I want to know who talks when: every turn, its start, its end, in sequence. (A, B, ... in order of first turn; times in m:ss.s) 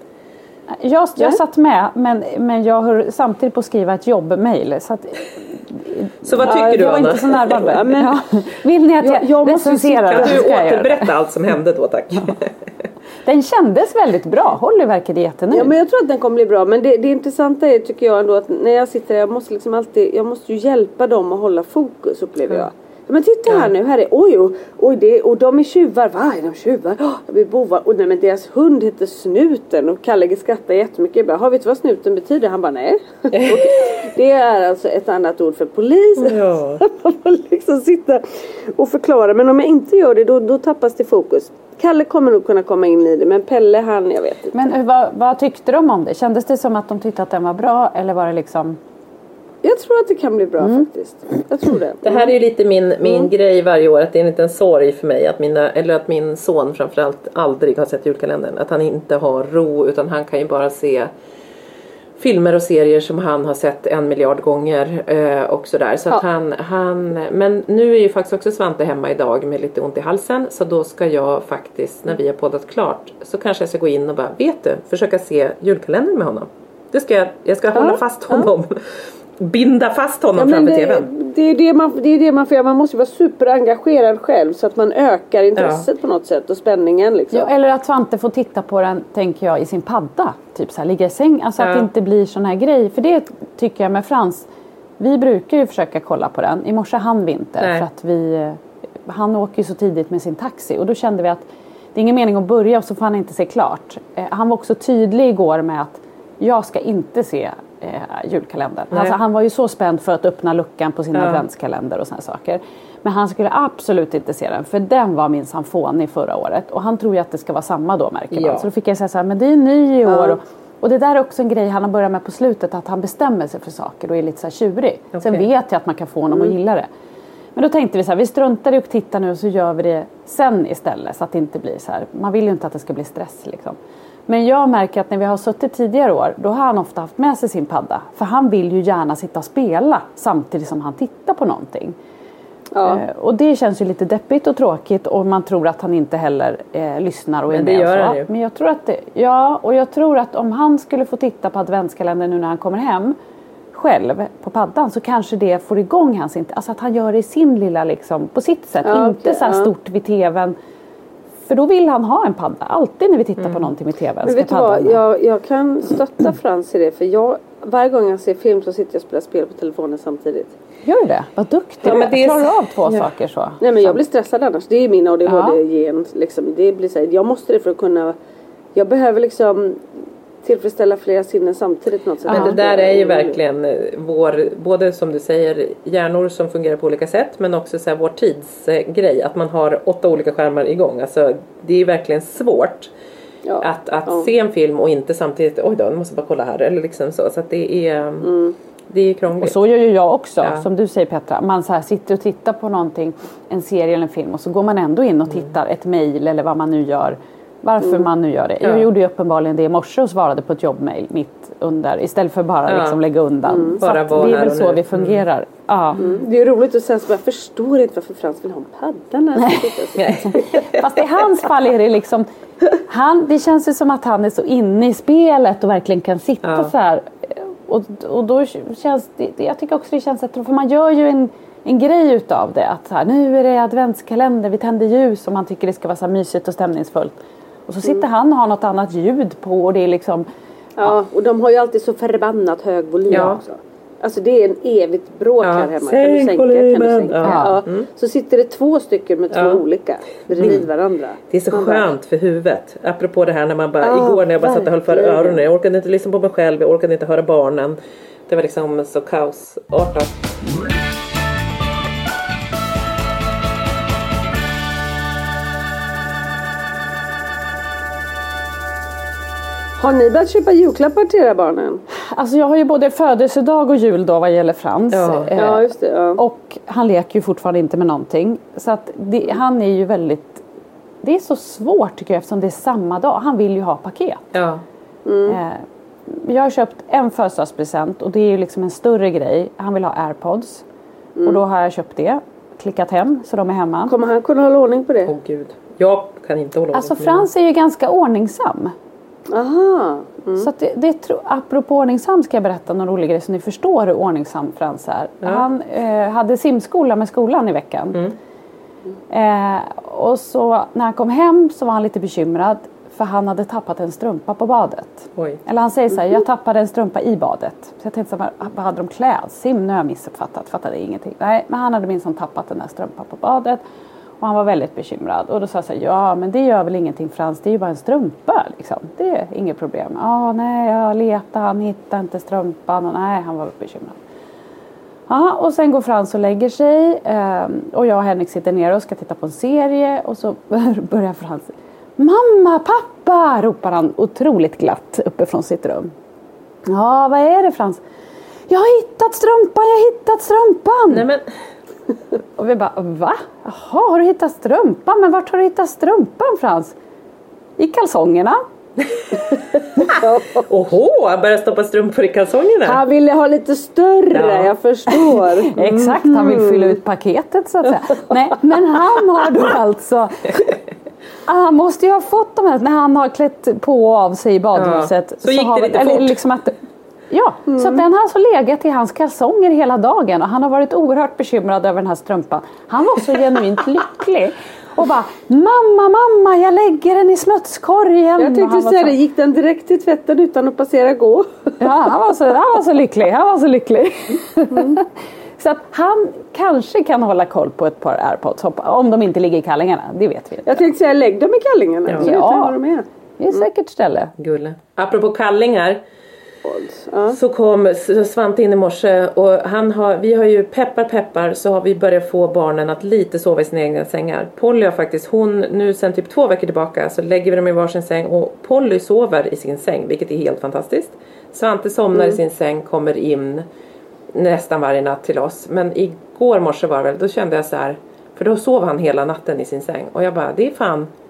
0:00.7-0:11.1 A
0:06.2-0:07.5 B
0:06.4-0:08.2 C
0:09.0-0:10.4 C
0:10.1-0:12.5 B
0:13.2-0:15.7 A
0:15.5-0:44.7 C
0:23.5-0:23.7 B
0:33.3-0:33.7 B
0:36.2-0:36.8 B
0:44.5-0:48.8 A
0:49.6-0:52.3 C
0:52.0-1:01.1 B
0:53.0-0:53.3 C
1:02.2-1:18.8 B
1:17.7-1:18.5 C
1:19.4-1:21.1 B
1:20.4-1:27.5 C
1:25.5-1:25.9 B
1:27.3-1:34.5 A
1:31.6-1:31.9 B
1:35.0-2:06.9 A
1:37.6-1:37.8 B
1:48.9-1:49.2 B
1:51.1-1:51.4 B
1:58.3-1:58.7 B
2:00.1-2:00.4 C
2:05.1-2:05.4 B
2:07.5-2:22.0 A
2:22.7-2:23.0 C
2:22.8-2:33.2 A
2:27.5-2:28.3 B
2:33.7-2:40.6 A
2:38.8-2:39.7 C
2:41.5-2:45.0 A
2:44.2-2:50.5 C
2:50.8-2:54.0 A
2:51.8-2:53.1 B
2:53.6-2:58.2 C
2:55.2-2:55.6 A
2:58.7-2:59.8 C
3:00.4-3:03.4 C
3:02.3-3:02.6 A
3:02.3-3:12.9 B
3:13.4-3:14.3 C
3:13.6-3:18.3 B
3:18.2-3:18.6 C
3:18.9-3:19.6 B
3:19.4-3:36.0 A
3:20.4-3:20.6 B
3:27.8-3:28.1 C
3:28.6-3:28.9 B
3:32.7-3:33.0 B
3:33.5-3:33.8 C
3:33.8-3:35.2 B
3:36.0-3:40.5 C
3:39.4-3:39.6 A
3:40.0-3:40.4 B
3:40.4-3:42.3 A
3:42.9-3:57.2 A
3:46.4-3:46.7 B
3:57.7-4:00.3 A
4:00.8-4:11.9 C
4:03.1-4:03.4 B
4:05.4-4:07.9 B
4:07.2-4:07.6 A
4:09.3-4:09.6 B
4:10.4-4:10.7 B
4:11.3-4:17.8 B
4:13.8-4:15.4 C
4:18.3-4:20.4 B
4:29.8-4:31.8 C
4:32.1-4:40.4 A
4:34.9-4:35.3 B
4:35.4-4:36.2 C
4:41.0-4:44.2 A
4:44.3-4:44.6 B
4:45.0-4:45.4 C
4:45.3-4:50.6 A
4:51.2-4:51.4 C
4:51.2-4:53.9 A
4:53.9-4:55.1 C
4:55.0-4:57.3 B
4:56.7-4:58.7 A
4:59.3-5:00.5 C
5:00.4-5:08.0 A
5:09.1-5:23.6 A
5:15.2-5:15.4 B
5:24.2-5:34.0 A
5:35.1-5:45.9 A
5:46.7-5:47.8 A
5:48.5-5:51.0 A
5:50.9-5:51.2 B
5:52.4-5:56.7 A
5:57.6-5:58.4 A
5:59.8-6:00.4 C
6:00.4-6:02.8 B
6:02.6-6:06.7 C
6:04.1-6:04.5 B
6:05.5-6:10.4 A
6:11.2-6:16.6 A
6:14.5-6:16.2 B
6:17.1-6:29.0 A
6:17.5-6:17.8 C
6:28.2-6:31.5 C
6:31.6-6:40.7 A
6:40.4-6:42.8 C
6:42.0-6:42.6 A
6:43.2-6:44.1 A
6:44.2-6:45.8 B
6:46.4-6:47.2 C
6:47.1-7:03.4 B
7:04.1-7:10.9 B